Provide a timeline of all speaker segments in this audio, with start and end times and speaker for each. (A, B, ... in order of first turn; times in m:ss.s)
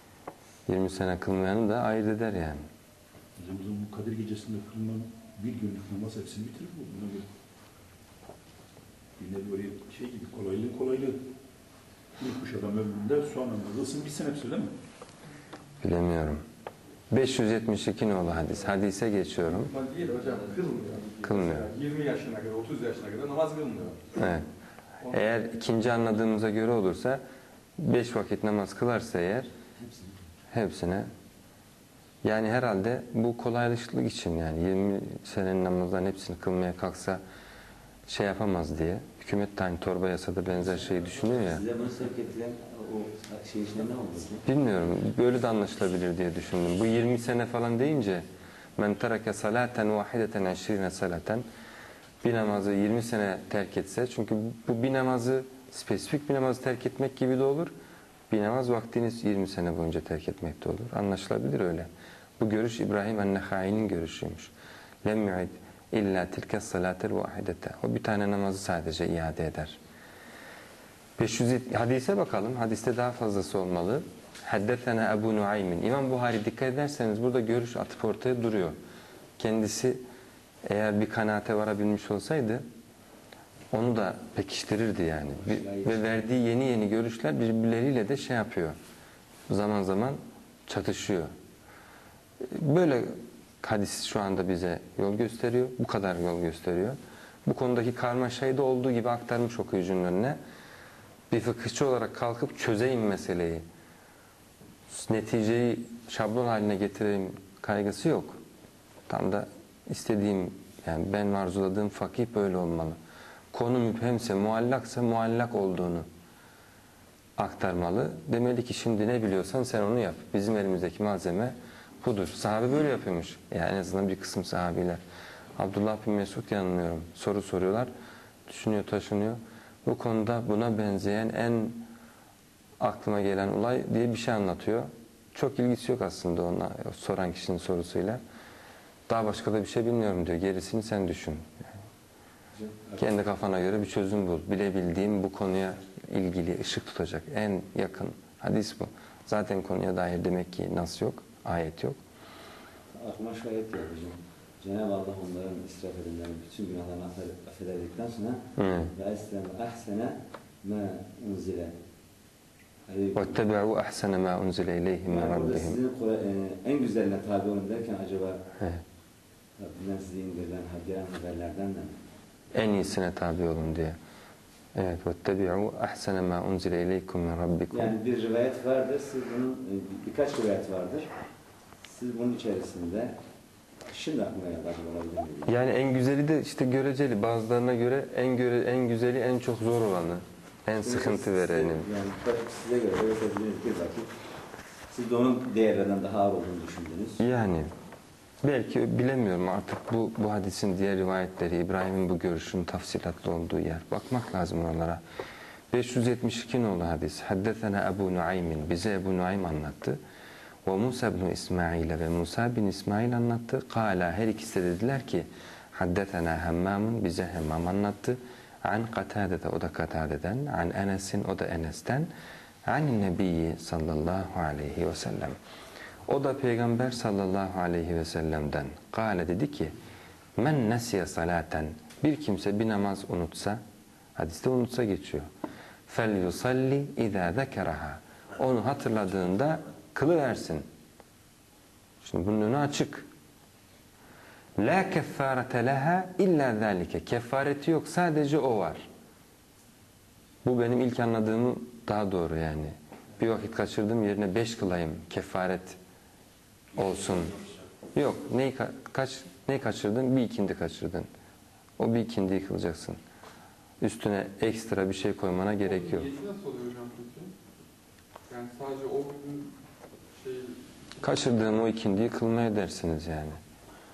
0:00.7-0:02.6 A
0:03.4-0:07.3 B
0:09.2-0:11.2 B
0:12.2-0:14.7 B
0:15.8-0:16.4 A
0:17.1-0:19.7 A
0:19.5-0:24.1 C
0:21.2-0:21.7 A
0:24.2-0:24.5 A
0:25.1-0:27.2 A
0:27.8-0:29.5 A
0:29.8-0:30.2 D
0:30.5-0:31.1 A
0:32.2-0:37.2 A
0:38.1-0:41.6 A
0:41.4-0:44.4 D
0:44.5-0:48.2 A
0:48.8-0:51.4 A
0:52.2-0:57.7 A
0:58.3-1:04.5 A
1:05.0-1:09.8 A
1:11.2-1:18.8 A
1:19.4-1:20.0 A
1:20.6-1:22.6 A
1:23.7-1:28.8 A
1:25.4-1:26.2 D
1:29.5-1:31.3 A
1:32.4-1:40.4 A
1:41.3-1:43.6 A
1:44.9-1:48.4 A
1:49.1-1:53.0 A
1:53.5-1:56.1 A
1:57.4-2:05.0 A
2:05.6-2:07.9 A
2:08.5-2:11.8 A
2:12.8-2:18.2 A
2:19.1-2:21.5 A
2:22.6-2:23.1 D
2:23.0-2:32.0 A
2:33.0-2:38.4 D
2:38.6-2:38.9 A
2:38.9-2:41.7 D
2:42.9-2:43.4 D
2:43.2-2:45.8 A
2:45.1-2:48.4 D
2:49.6-2:51.9 D
2:52.5-2:54.0 A
2:54.8-2:58.0 A
2:57.7-3:01.1 D
3:01.8-3:03.1 D
3:03.9-3:05.6 D
3:05.5-3:11.9 A
3:10.8-3:14.1 D
3:14.9-3:17.2 D
3:17.2-3:17.7 A
3:18.4-3:25.0 A
3:25.7-3:30.0 A
3:30.6-3:42.1 A
3:42.7-3:45.4 A
3:46.1-3:49.7 A
3:50.4-3:53.6 A
3:54.2-3:55.3 A
3:55.9-4:00.6 A
4:02.0-4:03.1 A
4:04.6-4:08.9 A
4:10.4-4:15.8 A
4:16.8-4:17.4 A
4:18.0-4:21.1 A
4:21.8-4:23.0 A
4:23.8-4:26.2 A
4:25.9-4:27.3 E
4:28.3-4:29.5 E
4:30.2-4:30.6 E
4:31.0-4:33.4 A